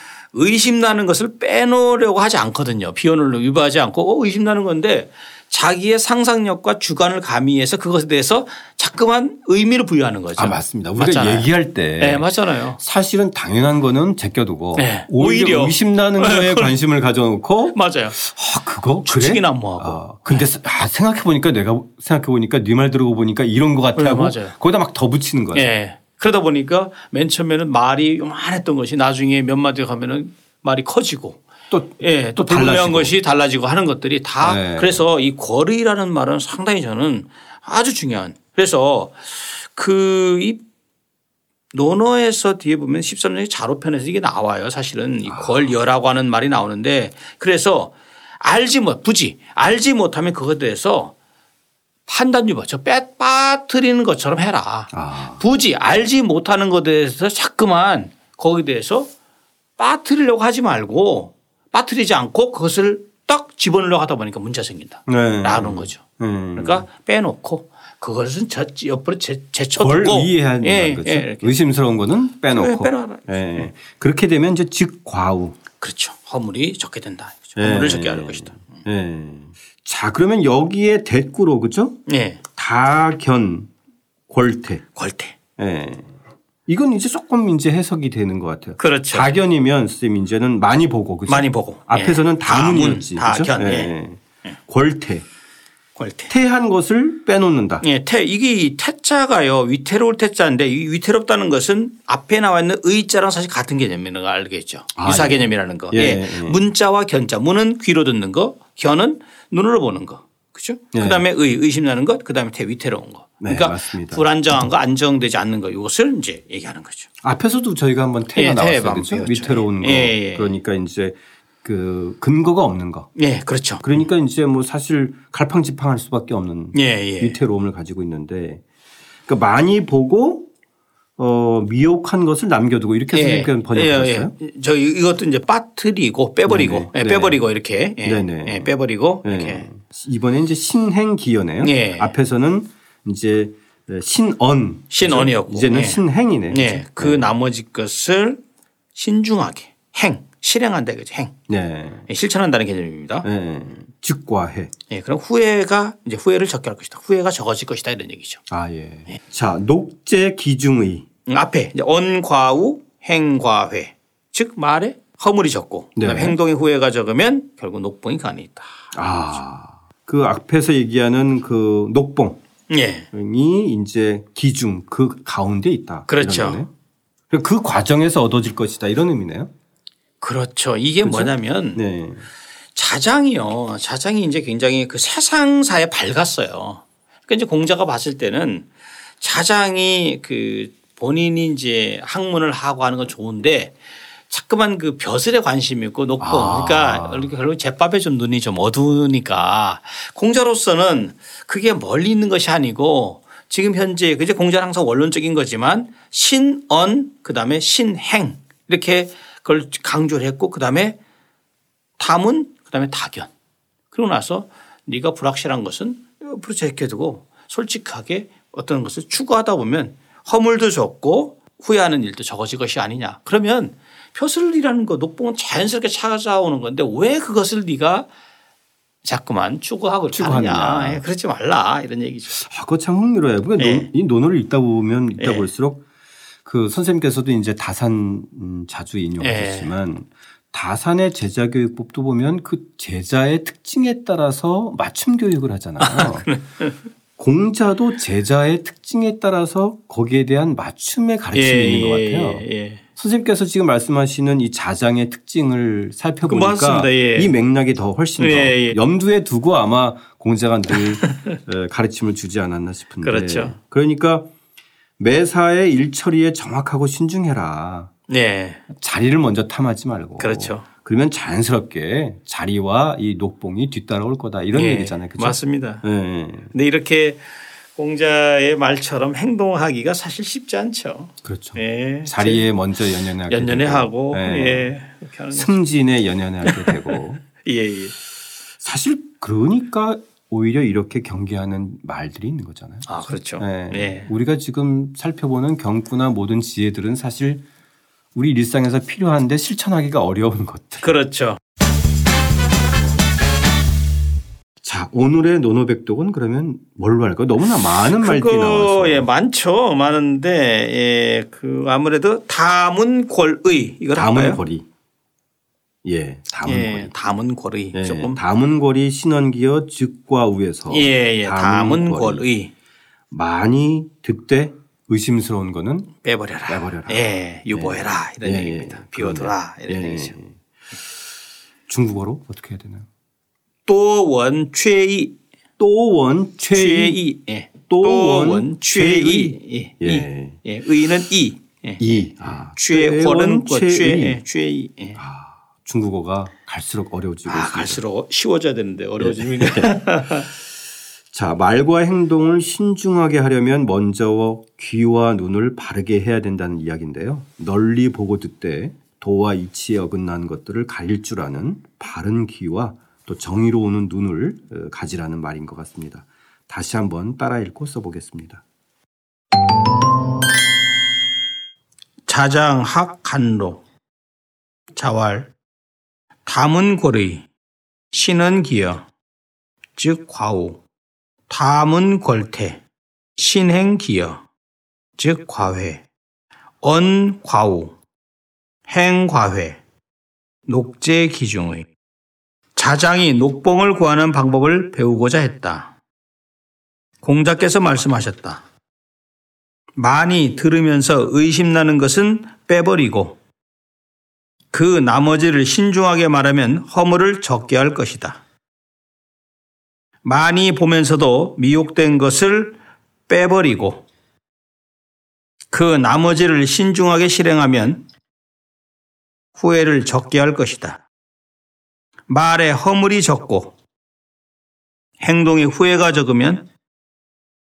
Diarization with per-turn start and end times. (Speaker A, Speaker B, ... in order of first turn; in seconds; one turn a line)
Speaker A: 0.3-12.8
Speaker B: 10.3-25.7
Speaker A: 14.7-16.7
Speaker A: 17.7-18.2
Speaker A: 19.0-20.5
Speaker A: 23.9-24.5
Speaker A: 25.5-31.4
Speaker B: 31.7-33.1
Speaker A: 32.0-40.6
Speaker B: 34.4-35.0
Speaker A: 41.7-51.1
Speaker B: 45.2-45.7
Speaker A: 52.1-59.1
Speaker B: 54.9-55.4
Speaker A: 59.8-66.0
Speaker B: 65.1-66.9
Speaker A: 66.5-71.6
Speaker B: 69.8-75.6
Speaker A: 72.5-73.6
Speaker A: 75.8-78.8
Speaker B: 77.5-82.0
Speaker A: 82.1-82.4
Speaker B: 82.5-83.7
Speaker B: 84.3-84.8
Speaker A: 85.0-85.3
Speaker B: 85.6-86.1
Speaker B: 86.7-95.2
Speaker A: 88.8-89.4
Speaker A: 91.3-93.9
Speaker A: 96.0-96.3
Speaker B: 96.3-97.8
Speaker A: 97.8-117.1
Speaker B: 105.0-106.6
Speaker B: 110.9-111.2
Speaker B: 113.4-114.2
Speaker B: 117.2-123.1
Speaker A: 118.3-120.5
Speaker A: 123.2-123.8
Speaker B: 123.8-128.6
Speaker A: 126.7-127.4
Speaker B: 129.2-130.5
Speaker B: 131.2-134.3
Speaker A: 133.1-139.7
Speaker B: 136.4-137.4
Speaker B: 138.0-147.3
Speaker A: 141.6-142.1
Speaker A: 144.9-148.4
Speaker A: 148.9-151.3
Speaker B: 151.5-152.1
Speaker A: 152.1-153.3
Speaker B: 153.2-154.7
Speaker A: 154.9-158.4
Speaker B: 158.5-161.1
Speaker A: 161.3-169.2
Speaker B: 165.9-166.4
Speaker B: 168.9-172.4
Speaker A: 172.7-173.1
Speaker B: 173.1-176.7
Speaker A: 176.1-176.6
Speaker B: 177.3-179.5
Speaker A: 180.2-181.8
Speaker B: 181.0-182.3
Speaker A: 182.7-188.7
Speaker A: 189.2-193.8
Speaker A: 194.3-211.0
Speaker B: 196.2-197.3
Speaker A: 212.0-213.3
Speaker A: 213.9-228.1
Speaker A: 229.0-232.4
Speaker B: 230.1-231.0
Speaker B: 232.3-235.8
Speaker A: 233.6-233.9
Speaker A: 235.2-235.5
Speaker B: 236.4-246.3
Speaker A: 239.2-239.7
Speaker A: 245.8-246.7
Speaker B: 247.2-264.3
Speaker A: 251.3-252.8
Speaker A: 256.2-257.3
Speaker A: 258.2-258.8
Speaker A: 263.0-263.6
Speaker B: 265.0-267.9
Speaker A: 268.1-268.6
Speaker B: 268.7-276.5
Speaker A: 270.2-270.6
Speaker A: 274.5-275.8
Speaker A: 276.5-277.2
Speaker A: 277.8-282.4
Speaker B: 281.2-284.7
Speaker A: 283.3-285.6
Speaker B: 285.3-287.2
Speaker A: 286.4-287.9
Speaker B: 288.6-297.4
Speaker A: 292.9-294.1
Speaker B: 298.1-300.9
Speaker A: 300.8-301.4
Speaker B: 304.6-309.1
Speaker A: 307.9-314.4
Speaker B: 313.9-314.6
Speaker B: 315.8-316.9
Speaker A: 316.4-318.2
Speaker B: 317.7-322.3
Speaker A: 320.7-322.5
Speaker B: 323.1-325.9
Speaker A: 326.0-330.1
Speaker B: 326.5-330.3
Speaker B: 331.7-332.9
Speaker A: 333.6-335.1
Speaker B: 335.6-337.0
Speaker A: 336.5-345.0
Speaker B: 337.7-340.4
Speaker B: 341.8-344.2
Speaker B: 344.9-347.8
Speaker A: 347.3-350.3
Speaker B: 349.0-349.8
Speaker B: 351.1-368.4
Speaker A: 372.1-373.6
Speaker A: 374.7-375.3
Speaker A: 376.2-377.3
Speaker A: 377.9-378.9
Speaker A: 379.8-380.6
Speaker A: 381.3-382.6
Speaker A: 383.1-384.2
Speaker A: 385.0-385.8
Speaker A: 386.6-387.7
Speaker A: 388.7-389.6
Speaker A: 390.5-391.7
Speaker A: 392.5-395.7
Speaker A: 397.0-398.4
Speaker A: 399.8-403.2
Speaker A: 404.5-408.2
Speaker A: 410.0-413.8
Speaker A: 415.5-417.8
Speaker A: 419.4-420.8
Speaker A: 422.1-423.5
Speaker A: 425.0-426.5